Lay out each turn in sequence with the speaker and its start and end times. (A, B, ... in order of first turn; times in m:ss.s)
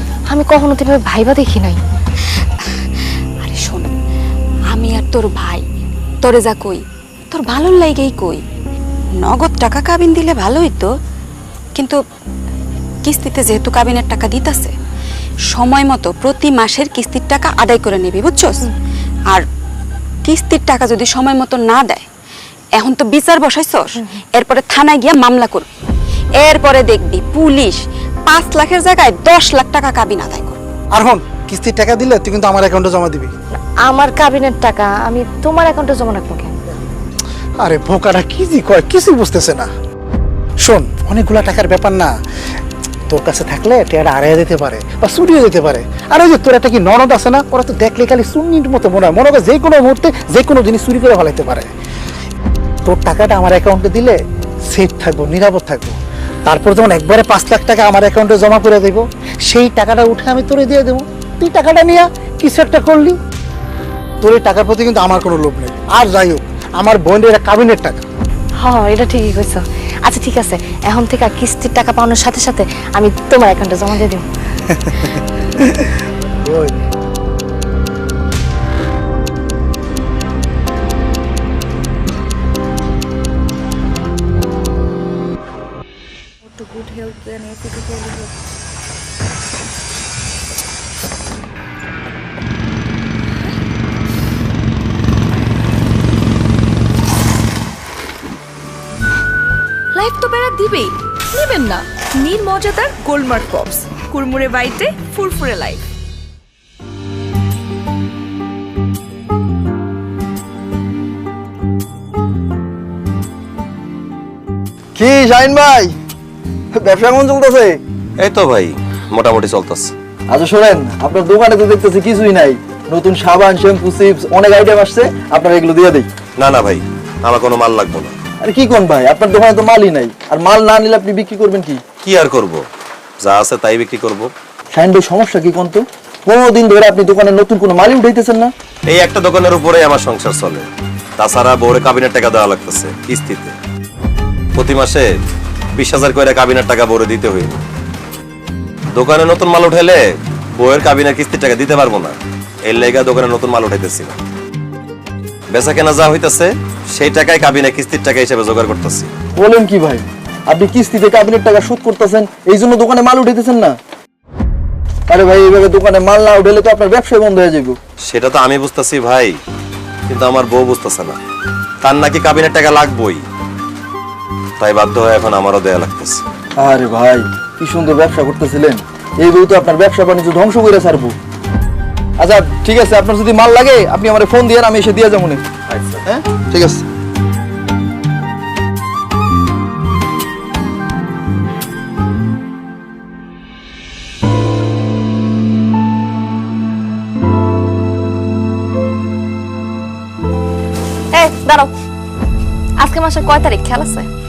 0:00.3-0:01.8 A
0:03.4-0:03.9 B
0:04.7-0:05.6 B
0:06.2-0:08.4 B
0:09.2-0:10.9 B
0:13.0-0:14.7 B
0:15.5-0:18.7 B
0:20.2-0:22.0 B
0:22.8-0:25.7 B
0:26.4-0:30.6 B
0:31.0-0:33.3 C
0:33.5-0:36.5 A
0:37.6-0:39.7 C
0:40.6-0:42.2 C
0:43.1-0:51.7 C
0:52.8-0:54.2 C
0:54.7-0:56.0 C
0:56.5-1:03.2 C
1:04.2-1:08.0 C
1:08.6-1:14.2 A
1:15.6-1:15.9 C
1:16.4-1:16.7 C
1:26.5-1:28.2 D
1:39.9-1:45.8 D
1:55.0-1:55.9 E
1:56.7-1:57.8 E
1:58.2-1:59.9 F
2:00.3-2:06.1 E
2:06.4-2:08.1 F
2:08.4-2:11.8 E
2:12.0-2:12.6 F
2:13.2-2:14.3 F
2:14.8-2:18.5 E
2:18.9-2:20.7 F
2:21.2-2:23.5 F
2:24.6-2:25.1 F
2:25.8-2:27.6 F
2:28.9-2:30.0 F
2:30.6-2:34.2 F
2:35.5-2:39.1 F
2:39.4-2:43.7 E
2:45.1-2:47.8 E
2:48.0-2:49.4 F
2:50.1-2:51.2 F
2:51.8-2:53.2 F
2:54.6-2:56.2 F
2:56.6-3:01.1 E
3:02.2-3:05.4 E
3:05.7-3:06.0 F
3:06.0-3:06.8 E
3:21.1-3:21.7 A
3:22.8-3:24.1 A